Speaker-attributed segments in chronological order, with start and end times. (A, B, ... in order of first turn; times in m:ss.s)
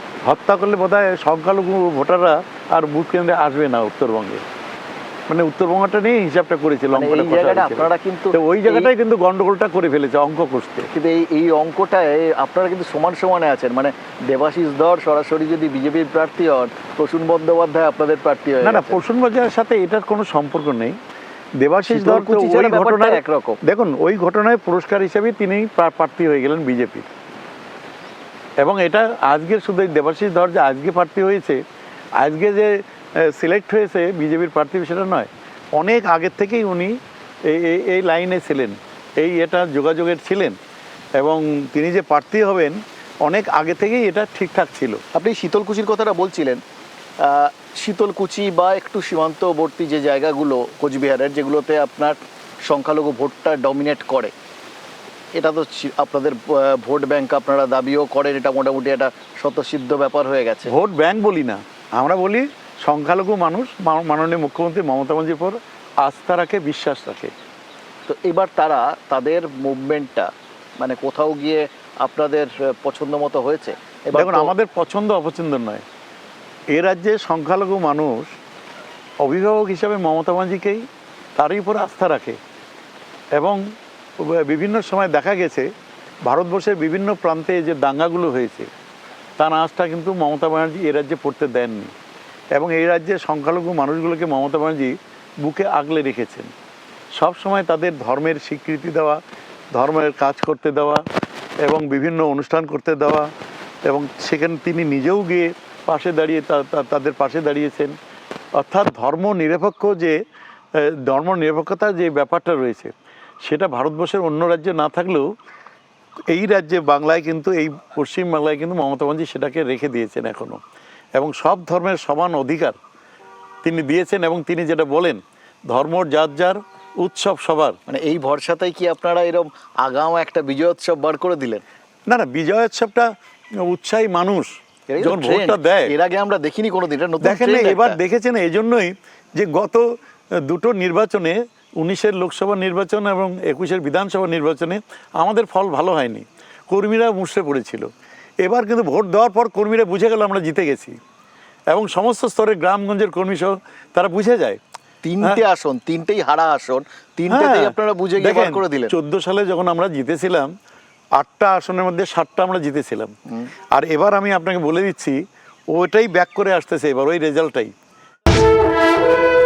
0:00.2-0:04.4 A
0:05.3-0:10.9 A
0:06.9-0:08.9 B
0:10.9-0:19.0 B
0:18.6-0:21.0 A
0:21.6-0:27.0 A
0:21.8-0:23.6 B
0:28.6-0:31.6 A
0:32.2-0:37.0 A
0:37.5-0:40.6 A
0:41.2-0:45.0 A
0:45.1-0:46.6 B
0:47.2-0:54.3 B
0:55.4-1:00.7 B
1:00.7-1:07.3 A
1:08.1-1:14.5 B
1:14.1-1:15.8 A
1:16.7-1:18.3 A
1:19.2-1:20.8 A
1:21.4-1:22.4 A
1:23.3-1:23.6 A
1:24.2-1:25.7 A
1:26.2-1:28.7 A
1:29.4-1:31.9 A
1:32.5-1:36.5 A
1:37.2-1:39.2 A
1:39.7-1:41.0 A
1:41.6-1:43.3 A
1:43.8-1:47.9 A
1:48.6-1:50.2 A
1:51.1-1:52.9 A
1:53.4-1:55.3 A
1:56.3-2:00.6 A
2:01.2-2:02.8 A
2:03.6-2:07.8 A
2:07.9-2:11.6 B
2:12.1-2:13.1 A
2:13.6-2:15.9 A
2:14.9-2:18.0 B
2:17.2-2:19.8 A
2:20.4-2:27.9 A
2:28.4-2:31.0 A
2:31.7-2:34.6 A
2:35.0-2:38.9 B
2:37.3-2:40.5 A
2:41.1-2:43.1 A
2:43.7-2:45.2 A
2:45.7-2:47.7 A